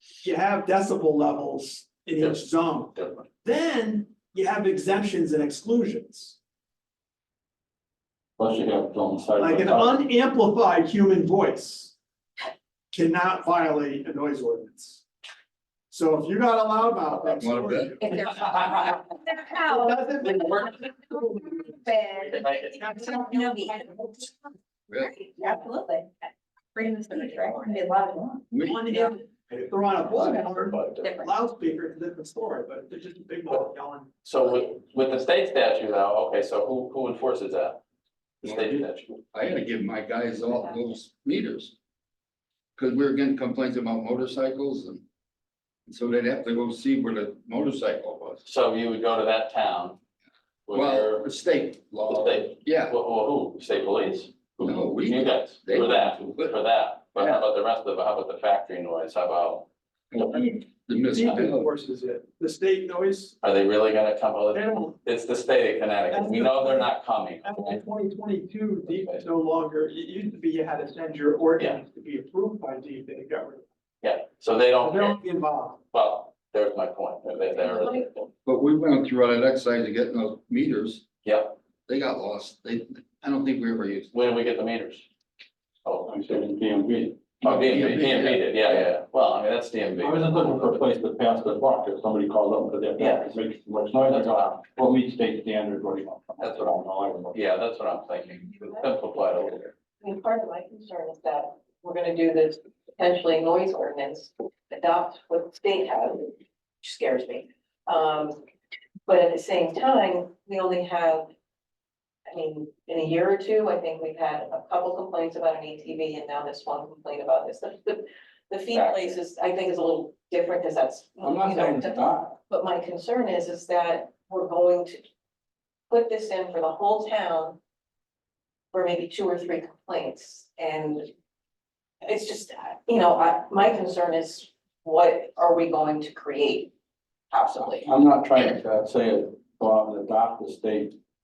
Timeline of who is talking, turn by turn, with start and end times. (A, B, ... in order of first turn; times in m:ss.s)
0:00.2-0:06.4 A
0:02.2-0:03.3 B
0:08.4-0:09.9 C
0:09.4-0:12.0 A
0:12.9-0:15.0 A
0:15.9-0:24.1 A
0:17.3-0:18.1 D
0:18.0-0:24.4 E
0:24.9-0:25.1 D
0:25.0-0:26.1 E
0:26.8-0:29.1 E
0:28.5-0:28.8 D
0:28.6-0:34.1 A
0:30.2-0:30.4 E
0:30.4-0:31.1 B
0:31.0-0:31.3 E
0:34.2-0:37.8 B
0:38.4-0:39.2 B
0:38.4-0:41.7 D
0:40.6-0:40.9 F
0:42.8-0:45.0 D
0:45.9-0:48.4 D
0:48.4-0:50.0 B
0:50.7-0:51.2 B
0:50.7-0:53.0 D
0:52.1-0:59.7 B
0:54.6-0:56.6 D
0:57.2-0:57.4 D
1:00.1-1:01.7 D
1:00.2-1:03.3 A
1:03.4-1:07.8 B
1:04.5-1:05.0 A
1:06.1-1:13.6 A
1:08.9-1:09.2 B
1:14.0-1:15.2 B
1:14.8-1:15.8 A
1:15.9-1:18.3 B
1:17.5-1:18.1 F
1:18.4-1:21.0 D
1:21.2-1:21.6 B
1:21.9-1:24.1 D
1:24.1-1:25.1 B
1:25.8-1:26.2 B
1:26.1-1:27.4 C
1:27.4-1:30.8 B
1:27.4-1:28.4 D
1:30.0-1:37.4 C
1:33.0-1:33.3 B
1:34.1-1:34.6 B
1:37.3-1:39.7 B
1:38.5-1:38.9 F
1:40.0-1:48.4 F
1:49.1-1:51.3 F
1:52.3-2:05.0 F
1:58.7-1:59.2 B
2:01.2-2:02.4 C
2:05.9-2:07.6 F
2:08.7-2:11.1 F
2:12.0-2:16.7 F
2:17.3-2:17.9 F
2:17.8-2:21.0 C